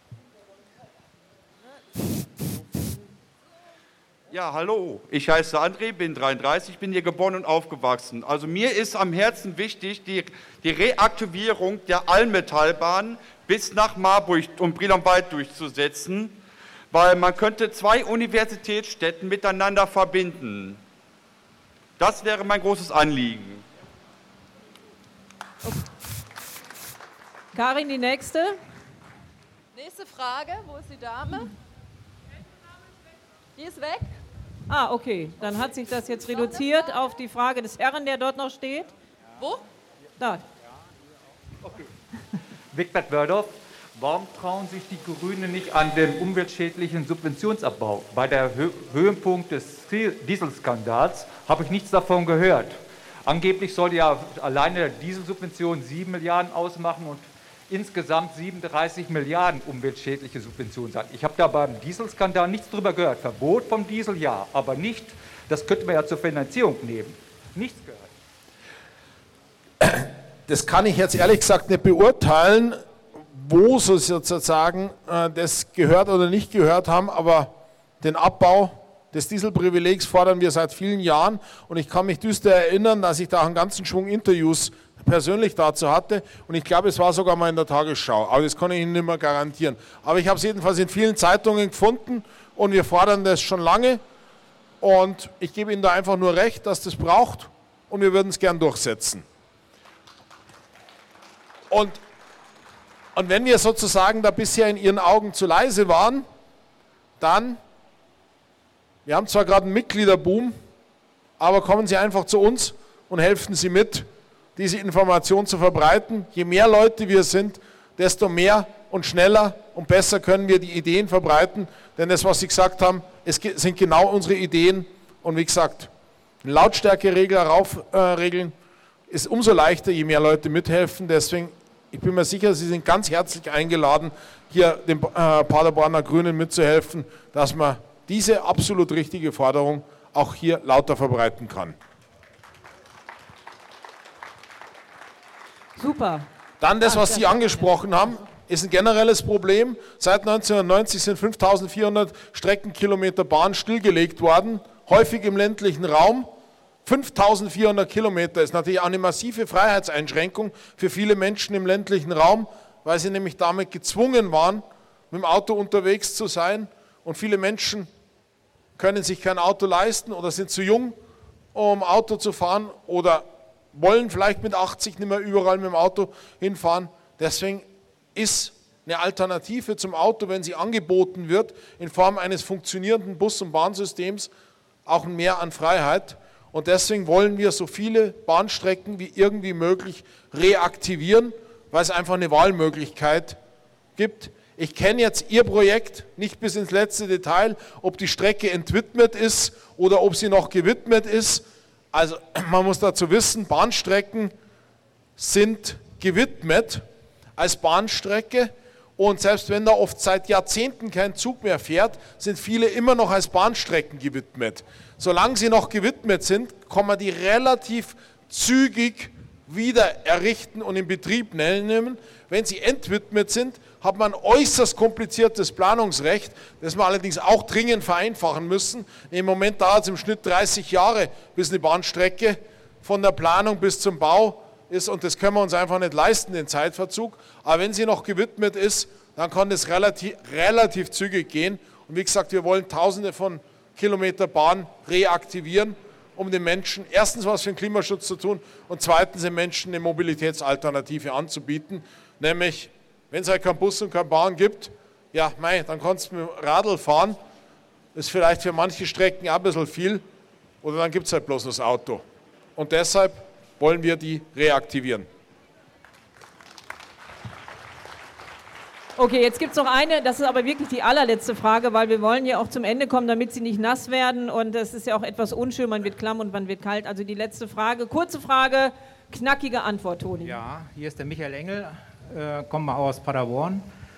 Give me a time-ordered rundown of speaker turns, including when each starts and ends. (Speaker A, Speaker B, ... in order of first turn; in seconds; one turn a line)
Speaker A: 4.3-16.4
Speaker A: 16.9-20.8
Speaker A: 22.0-23.6
Speaker B: 27.5-28.6
Speaker C: 29.7-31.5
Speaker C: 33.5-34.1
Speaker B: 34.7-38.9
Speaker D: 42.7-68.1
Speaker E: 69.8-94.0
Speaker E: 94.8-99.2
Speaker E: 101.7-102.0
Speaker E: 103.1-106.2
Speaker E: 107.2-107.6
Speaker E: 109.0-110.5
Speaker E: 111.4-125.9
Speaker E: 126.4-128.5
Speaker E: 129.1-141.8
Speaker B: 145.8-146.2
Speaker E: 146.6-156.3
Speaker B: 146.8-147.5
Speaker E: 156.8-167.9
Speaker E: 168.8-171.0
Speaker E: 171.5-184.3
Speaker E: 184.8-193.4
Speaker E: 194.0-204.3
Speaker E: 205.2-206.8
Speaker E: 207.4-257.2
Speaker E: 257.9-260.0
Speaker E: 260.6-262.0
Speaker E: 262.6-265.1
Speaker B: 269.0-280.4
Speaker F: 280.2-283.7